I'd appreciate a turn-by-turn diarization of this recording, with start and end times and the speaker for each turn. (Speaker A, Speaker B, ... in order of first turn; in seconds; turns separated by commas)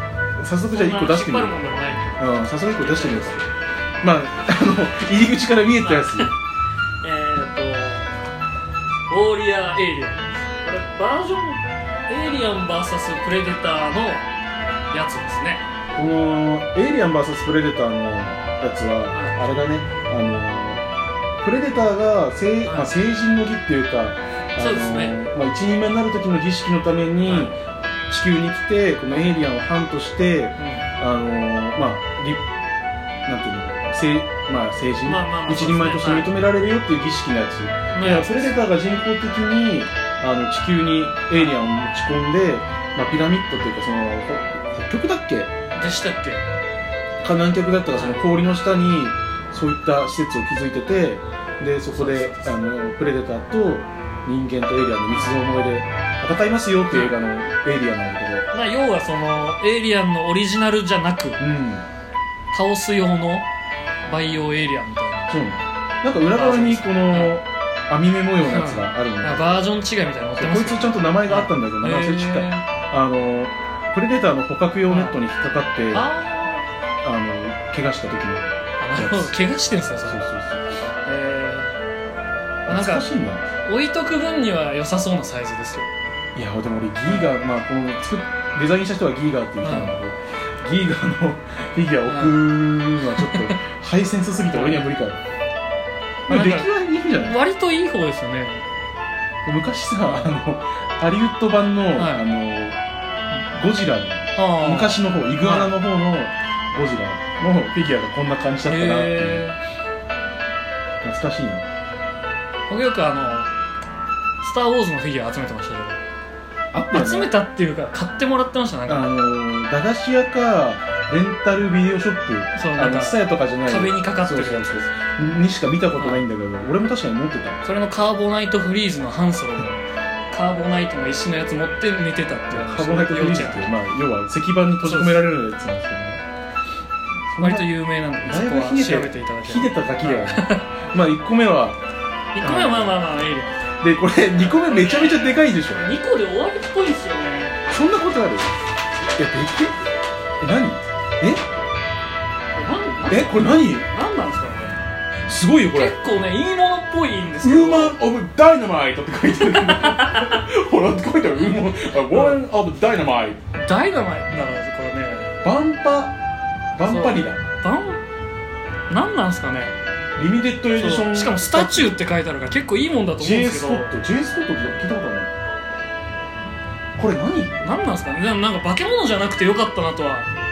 Speaker A: 0.4-1.6, Speaker B: 0.7-2.2, Speaker A: 2.2-3.5, Speaker B: 2.7-3.5, Speaker A: 4.0-6.3, Speaker B: 5.8-6.3, Speaker B: 7.0-8.1, Speaker B: 9.1-14.3, Speaker B: 14.9-15.6, Speaker A: 15.9-20.8, Speaker B: 19.1-19.5, Speaker A: 21.4-27.6, Speaker B: 22.6-22.9, Speaker B: 24.6-25.2, Speaker B: 27.2-27.6, Speaker A: 28.1-32.4, Speaker B: 30.6-30.9, Speaker A: 33.3-45.5, Speaker B: 35.0-36.3, Speaker B: 37.9-38.6, Speaker B: 45.7-46.4, Speaker A: 47.2-58.5, Speaker B: 47.9-48.2, Speaker B: 51.9-52.6, Speaker B: 55.1-55.4, Speaker B: 56.9-57.2, Speaker B: 58.5-61.4, Speaker A: 61.4-61.9, Speaker B: 62.5-63.5, Speaker B: 64.1-65.4, Speaker A: 65.3-69.5, Speaker B: 66.3-67.3, Speaker B: 68.4-72.7, Speaker A: 70.4-76.1, Speaker B: 74.9-75.2, Speaker B: 75.9-76.7, Speaker A: 77.0-79.3, Speaker B: 78.8-80.2, Speaker A: 80.1-80.6, Speaker B: 81.1-81.8, Speaker A: 82.7-83.5, Speaker B: 82.7-83.1, Speaker B: 83.7-85.9, Speaker A: 86.3-95.2, Speaker B: 89.6-90.0, Speaker B: 92.1-92.5, Speaker B: 93.2-93.6, Speaker B: 94.5-94.8, Speaker A: 96.3-97.4, Speaker B: 96.3-96.7, Speaker B: 97.2-98.6, Speaker A: 99.5-102.8, Speaker B: 102.0-102.3, Speaker A: 103.3-109.4, Speaker B: 104.4-105.7, Speaker B: 108.7-109.6, Speaker A: 111.0-111.7, Speaker B: 112.7-113.5, Speaker B: 114.4-116.0, Speaker A: 116.7-117.3, Speaker B: 116.9-119.1, Speaker A: 118.9-127.6, Speaker B: 122.5-124.9, Speaker B: 125.9-126.2, Speaker B: 127.6-129.8, Speaker B: 130.3-133.7, Speaker A: 132.5-136.2, Speaker B: 134.8-135.3, Speaker A: 137.3-141.8, Speaker B: 137.4-140.7, Speaker B: 142.3-143.6, Speaker A: 142.4-143.0, Speaker A: 143.8-145.9, Speaker B: 144.4-147.6, Speaker A: 147.7-148.5, Speaker A: 149.2-149.8, Speaker A: 150.4-151.4, Speaker B: 152.6-154.8, Speaker A: 153.1-153.9, Speaker A: 155.3-156.0, Speaker B: 155.7-158.0, Speaker A: 157.4-163.4, Speaker B: 159.5-160.4, Speaker B: 162.1-162.4, Speaker B: 163.6-165.3, Speaker A: 165.4-166.2, Speaker A: 166.8-167.4, Speaker B: 166.8-168.0, Speaker B: 168.9-169.8, Speaker A: 170.2-171.9, Speaker B: 170.8-173.9, Speaker A: 173.2-175.3, Speaker A: 177.0-177.6, Speaker B: 177.6-180.3